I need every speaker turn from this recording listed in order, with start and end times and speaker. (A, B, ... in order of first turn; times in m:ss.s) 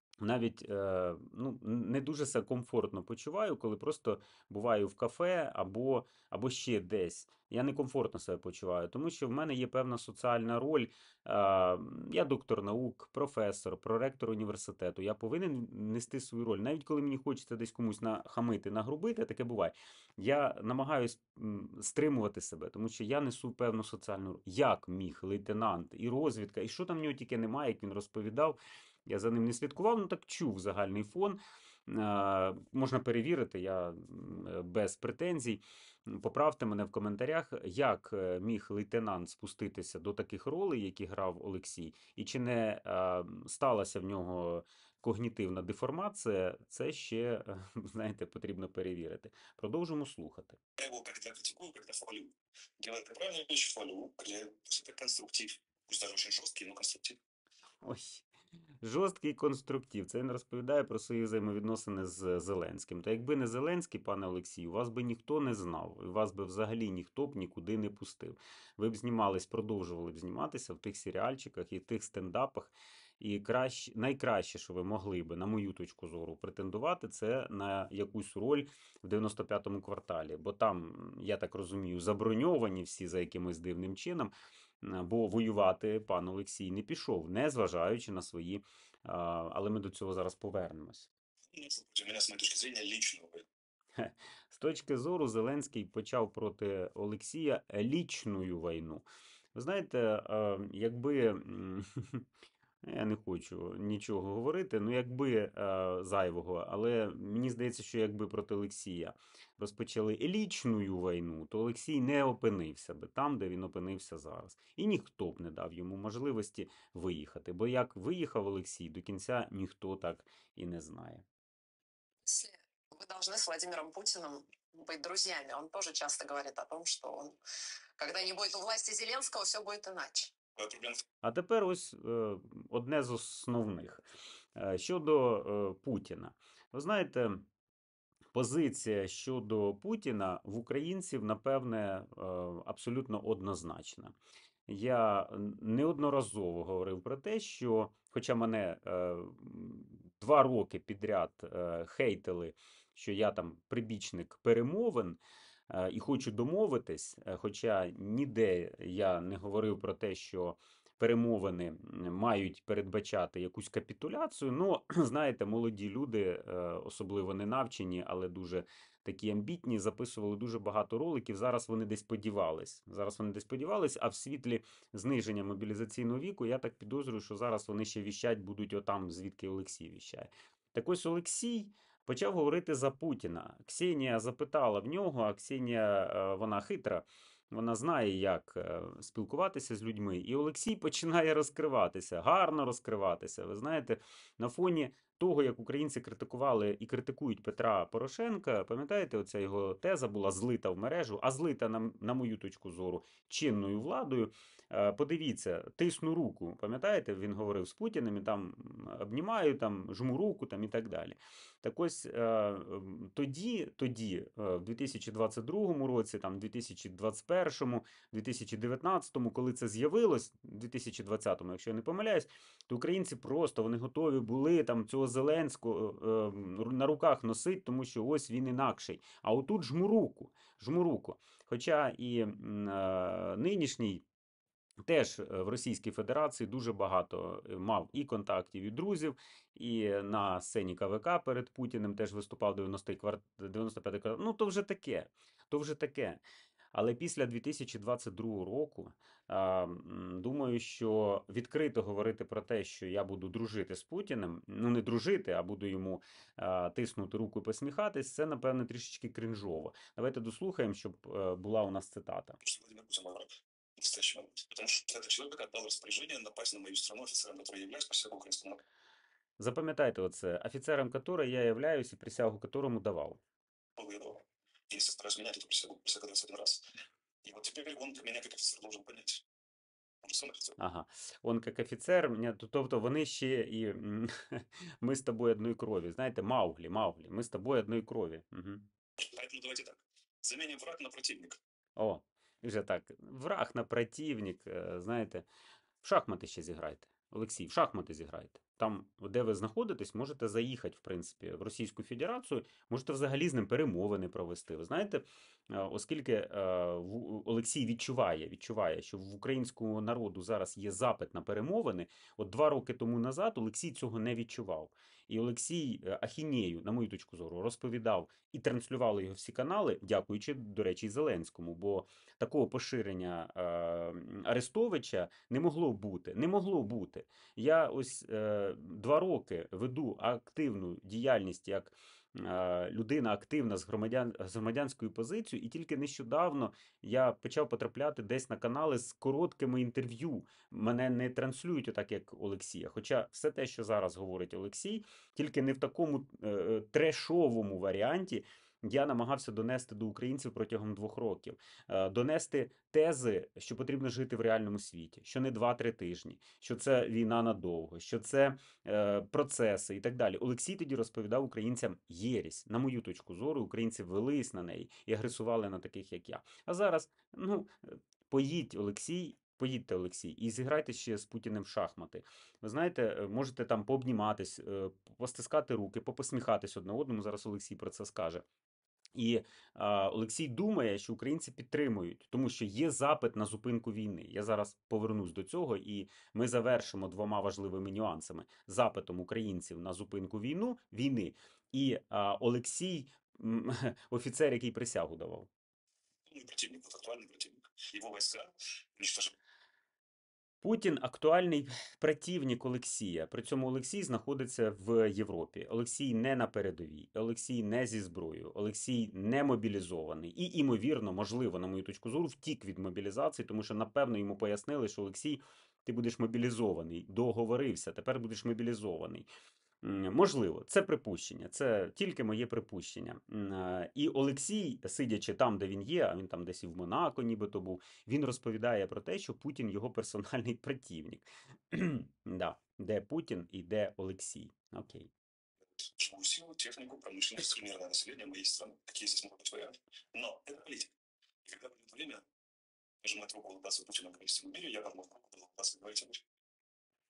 0:00.2-0:50.6 A
0:50.8-0:57.2 B
0:57.8-0:58.2 A
0:58.8-1:31.1 A
1:31.5-1:33.4 B
1:34.0-1:42.2 A
1:42.8-2:01.2 A
2:02.2-2:07.4 C
2:08.0-2:10.3 C
2:10.5-2:11.0 B
2:11.2-2:14.0 A
2:14.6-2:17.4 A
2:18.3-2:24.1 A
2:24.7-2:35.2 A
2:35.7-3:54.0 A
3:54.8-4:06.2 A
4:06.7-4:22.4 A
4:22.4-4:28.6 B
4:29.4-4:33.2 A
4:33.8-4:36.6 B
4:37.2-4:39.2 B
4:40.0-4:40.6 B
4:40.6-4:48.7 A
4:49.0-4:51.4 B
4:51.8-4:55.2 A
4:55.8-6:18.2 A
6:18.9-6:35.3 A
6:36.0-6:39.1 B
6:40.4-6:59.1 A
6:59.6-7:14.9 A
7:15.6-7:20.7 B
7:21.2-7:22.0 B
7:22.8-7:26.0 B